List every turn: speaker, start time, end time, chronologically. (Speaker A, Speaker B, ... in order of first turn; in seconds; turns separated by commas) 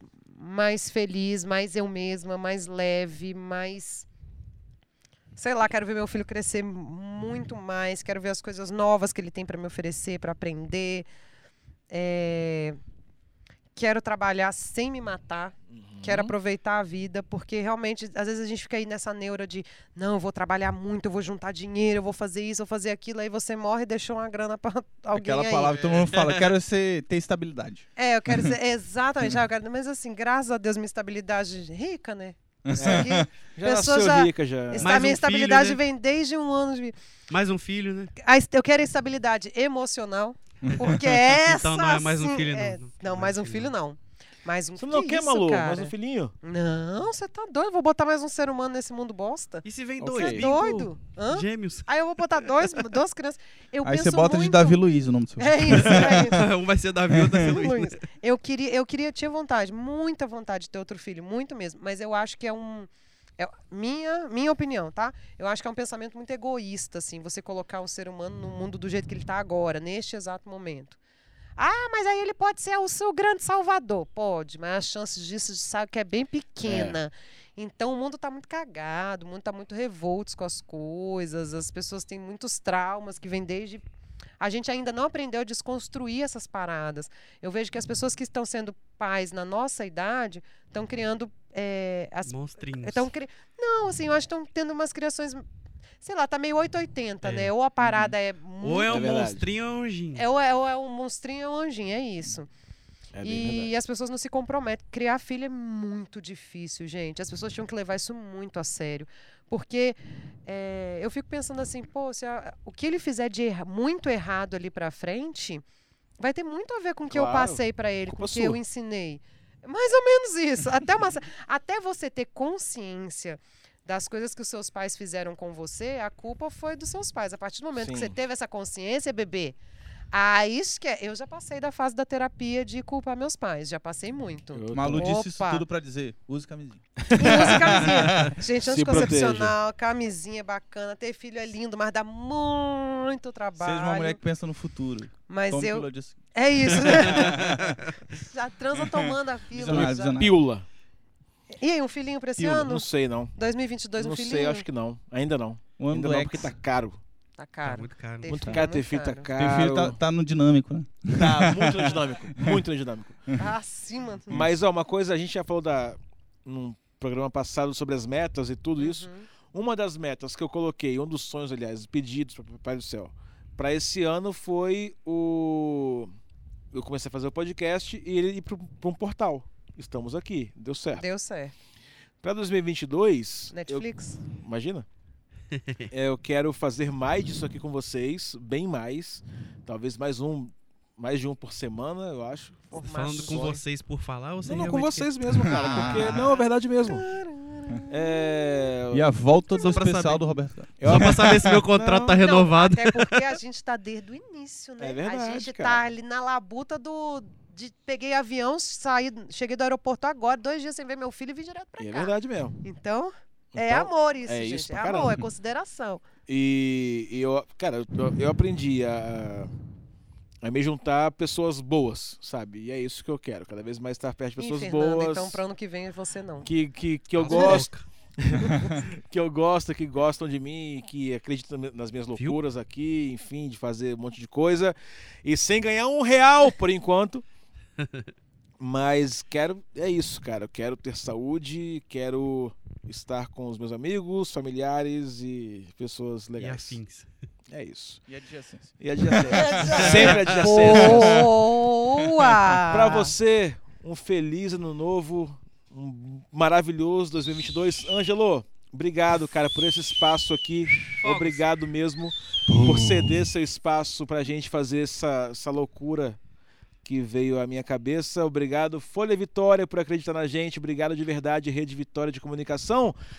Speaker A: 0.3-4.1, Speaker A: 5.4-11.1, Speaker A: 11.9-12.8, Speaker A: 13.8-25.9, Speaker B: 15.7-16.3, Speaker C: 25.1-28.6, Speaker D: 26.1-26.5, Speaker A: 28.0-37.0, Speaker C: 32.6-33.3, Speaker B: 32.8-35.2, Speaker D: 34.8-35.8, Speaker D: 37.3-38.1, Speaker A: 38.2-54.8, Speaker C: 40.6-41.0, Speaker D: 41.4-43.7, Speaker B: 44.8-46.4, Speaker D: 49.6-51.9, Speaker B: 50.0-50.5, Speaker D: 52.4-52.8, Speaker C: 53.8-56.5, Speaker A: 55.4-56.4, Speaker D: 55.7-58.0, Speaker C: 57.1-57.5, Speaker A: 57.4-71.0, Speaker A: 71.6-83.8, Speaker B: 76.6-77.0, Speaker A: 84.4-95.4, Speaker D: 92.3-93.1, Speaker A: 96.0-99.4, Speaker D: 97.2-97.5, Speaker D: 98.6-100.2, Speaker B: 98.9-99.5, Speaker A: 100.2-102.5, Speaker B: 103.1-103.7, Speaker A: 103.2-115.6, Speaker A: 116.2-129.6, Speaker B: 117.1-117.6, Speaker B: 118.1-118.6, Speaker B: 127.8-128.2, Speaker A: 130.1-135.7, Speaker B: 134.5-135.1, Speaker C: 134.7-138.4, Speaker B: 137.0-137.6, Speaker A: 137.1-144.2, Speaker B: 138.6-139.6, Speaker C: 143.6-147.9, Speaker A: 145.3-147.6, Speaker A: 148.1-150.2, Speaker C: 148.8-150.4, Speaker B: 149.7-150.7, Speaker A: 151.6-154.7, Speaker B: 152.4-153.3, Speaker B: 154.0-157.0, Speaker C: 155.8-156.6, Speaker A: 157.4-159.3, Speaker D: 157.6-158.3, Speaker B: 158.3-160.0, Speaker C: 159.4-162.6, Speaker B: 161.2-163.3, Speaker A: 163.4-164.4, Speaker B: 164.3-176.1, Speaker A: 168.8-169.3, Speaker B: 176.7-181.1, Speaker A: 181.0-181.5, Speaker B: 182.2-184.9, Speaker A: 183.5-184.2, Speaker B: 185.9-192.7, Speaker A: 192.7-193.6, Speaker D: 192.7-196.2, Speaker B: 194.4-197.1, Speaker C: 195.3-196.4, Speaker A: 196.8-198.7, Speaker B: 197.9-199.1, Speaker C: 198.9-201.7, Speaker D: 199.6-200.3, Speaker B: 200.8-202.2, Speaker D: 200.8-203.2, Speaker A: 202.1-216.0, Speaker B: 204.8-205.8, Speaker B: 211.8-212.6, Speaker B: 213.5-215.2, Speaker B: 216.3-219.5, Speaker B: 220.4-225.4, Speaker A: 224.4-226.5, Speaker B: 226.4-237.2, Speaker D: 227.2-227.9, Speaker A: 227.2-227.7, Speaker D: 237.8-238.1, Speaker B: 238.6-246.8, Speaker D: 246.4-247.1, Speaker B: 247.5-248.0, Speaker C: 248.1-250.1, Speaker B: 248.8-251.3, Speaker A: 249.3-253.2, Speaker D: 249.7-250.6, Speaker C: 250.6-251.4, Speaker C: 252.0-252.5, Speaker B: 252.6-266.2, Speaker D: 261.0-261.5, Speaker C: 262.5-263.3, Speaker B: 266.9-273.0